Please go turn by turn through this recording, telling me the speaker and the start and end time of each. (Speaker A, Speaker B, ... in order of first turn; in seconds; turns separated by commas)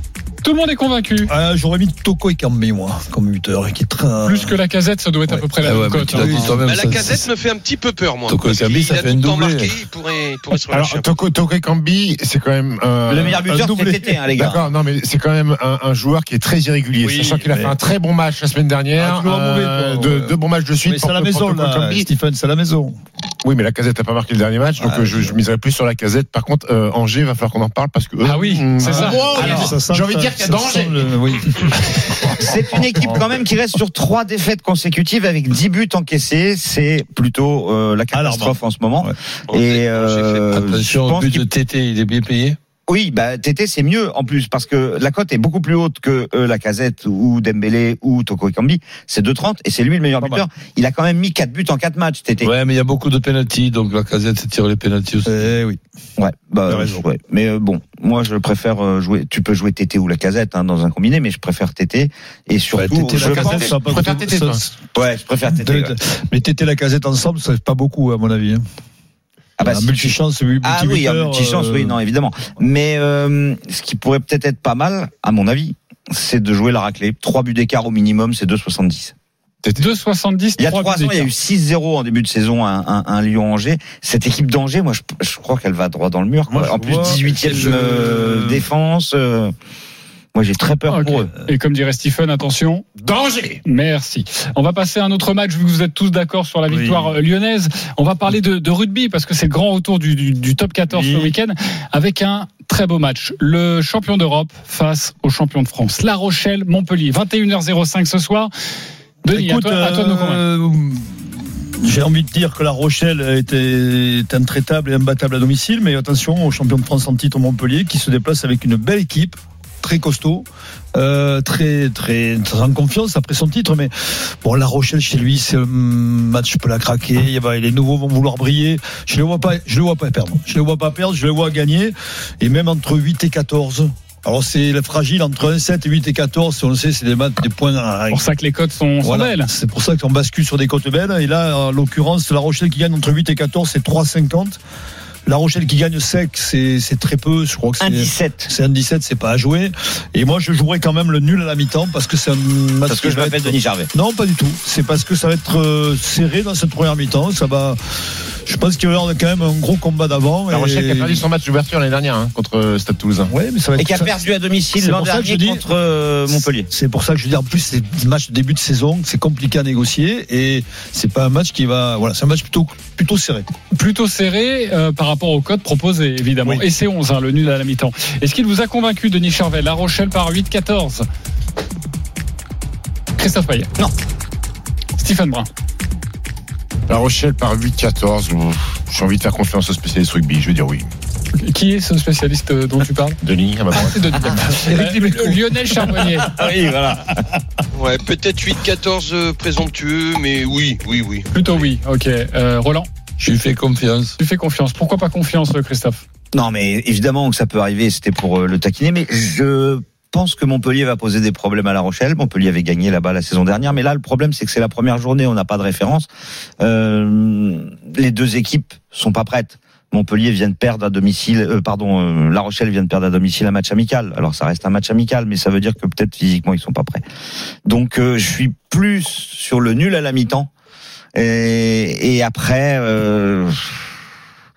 Speaker A: 0.4-1.3, Speaker B: 1.3-4.5, Speaker A: 4.2-6.5, Speaker C: 5.6-7.3, Speaker B: 6.1-6.6, Speaker D: 6.6-11.1, Speaker C: 8.3-9.8, Speaker E: 10.7-13.5, Speaker F: 13.1-14.6, Speaker B: 13.3-14.2, Speaker E: 14.4-22.1, Speaker B: 17.0-17.8, Speaker B: 19.0-23.0, Speaker E: 23.4-31.7, Speaker A: 28.2-29.6, Speaker B: 29.0-32.4, Speaker F: 29.3-29.7, Speaker F: 32.4-41.4, Speaker B: 38.1-39.1, Speaker D: 39.5-40.5, Speaker C: 40.5-42.6, Speaker F: 42.9-52.5, Speaker B: 50.2-50.5, Speaker C: 52.4-55.4, Speaker B: 55.2-55.8, Speaker F: 56.2-63.8, Speaker B: 56.7-57.0, Speaker B: 62.7-64.7, Speaker E: 63.1-64.6, Speaker F: 65.0-65.9, Speaker B: 65.5-68.6, Speaker F: 69.6-79.1, Speaker B: 69.6-72.0, Speaker E: 79.6-79.9, Speaker A: 79.8-81.3, Speaker F: 80.6-89.5, Speaker B: 86.5-88.6, Speaker F: 90.3-91.3, Speaker A: 90.9-92.9, Speaker E: 93.0-93.6, Speaker A: 93.6-108.5, Speaker B: 96.7-97.1, Speaker B: 100.9-101.3, Speaker A: 109.2-110.4, Speaker B: 109.3-138.3, Speaker A: 138.1-139.5, Speaker B: 139.0-144.6, Speaker B: 145.3-157.8, Speaker F: 147.8-148.5, Speaker F: 152.9-153.9, Speaker B: 158.4-161.2, Speaker E: 160.5-163.3, Speaker B: 163.3-164.2, Speaker F: 163.8-166.7, Speaker B: 164.8-165.6, Speaker B: 166.3-173.5, Speaker A: 173.7-181.1, Speaker A: 183.2-183.7, Speaker A: 185.0-185.5, Speaker E: 186.9-190.9, Speaker A: 191.3-193.2, Speaker E: 193.2-194.4, Speaker A: 193.7-196.3, Speaker B: 194.5-195.4, Speaker F: 196.3-197.2, Speaker D: 197.7-201.4, Speaker A: 201.3-202.9, Speaker C: 203.2-204.2, Speaker A: 204.2-206.0, Speaker F: 206.3-216.1, Speaker F: 216.6-227.0, Speaker F: 227.7-230.5, Speaker F: 231.2-233.8